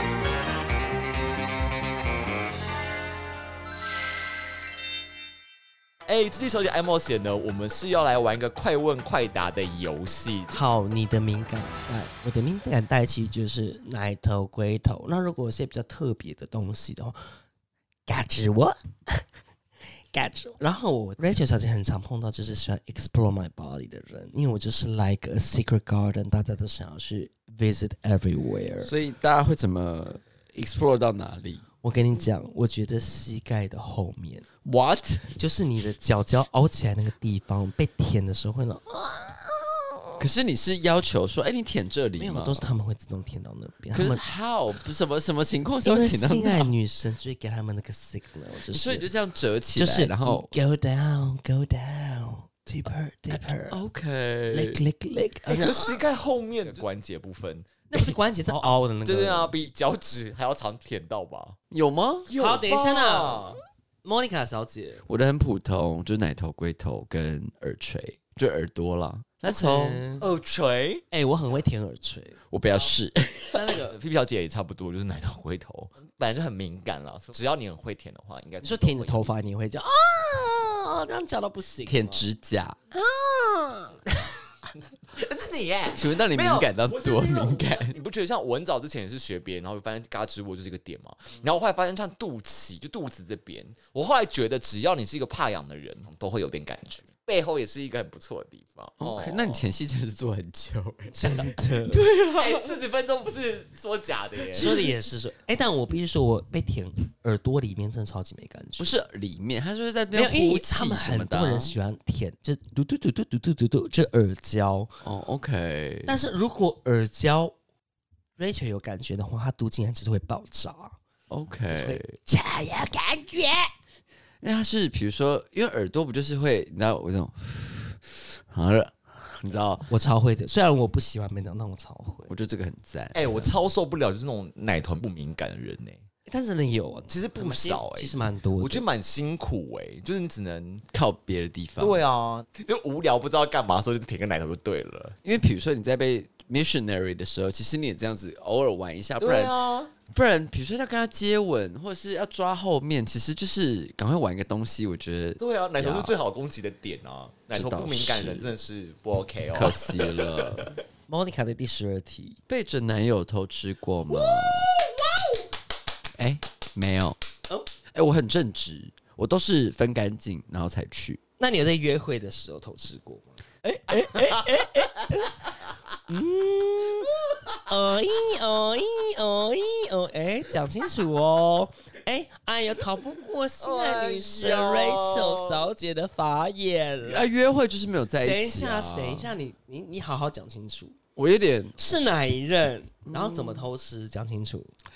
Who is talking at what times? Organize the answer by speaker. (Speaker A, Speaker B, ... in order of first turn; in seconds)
Speaker A: 6.1-10.6, 55.5-61.6, 62.2-63.6, 70.2-71.0, 73.8-79.3, 85.1-99.7, 102.3-104.7, 133.1-136.0, 137.1-140.8, 141.8-145.2, 149.2-149.9, 155.4-160.7, 164.6-165.4, 183.6-185.7
Speaker B: 10.5-17.2, 18.1-19.2, 20.1-28.9, 31.8-34.5, 35.4-40.2, 42.2-44.2, 45.8-49.1, 49.7-53.8, 54.5-56.0, 57.9-59.5, 62.3-65.0, 69.4-70.3, 71.1-72.4, 73.5-74.0, 78.6-82.2, 82.9-84.0, 101.1-102.1, 104.5-108.9, 110.1-114.9, 116.0-117.5, 118.4-121.0, 121.7-123.7, 129.9-132.3, 136.3-138.8, 161.1-162.4, 171.4-175.4, 176.1-177.1, 177.7-187.3, 188.2-190.9, 191.8-194.7
Speaker C: 28.8-31.6, 34.6-35.4, 40.2-42.7, 43.9-46.7, 48.7-50.5, 53.3-54.8, 61.7-62.3, 65.1-70.0, 72.5-73.8, 81.8-82.8, 85.9-88.0, 99.0-102.8, 104.5-104.9, 108.8-111.8, 115.0-116.2, 121.3-122.1, 124.4-129.9, 132.3-133.4, 140.9-142.0, 145.2-149.6, 150.1-156.1, 157.5-158.5, 159.5-160.8, 162.5-164.7, 166.2-167.2, 167.9-171.2, 187.0-189.3, 191.2-191.8, 193.1-193.7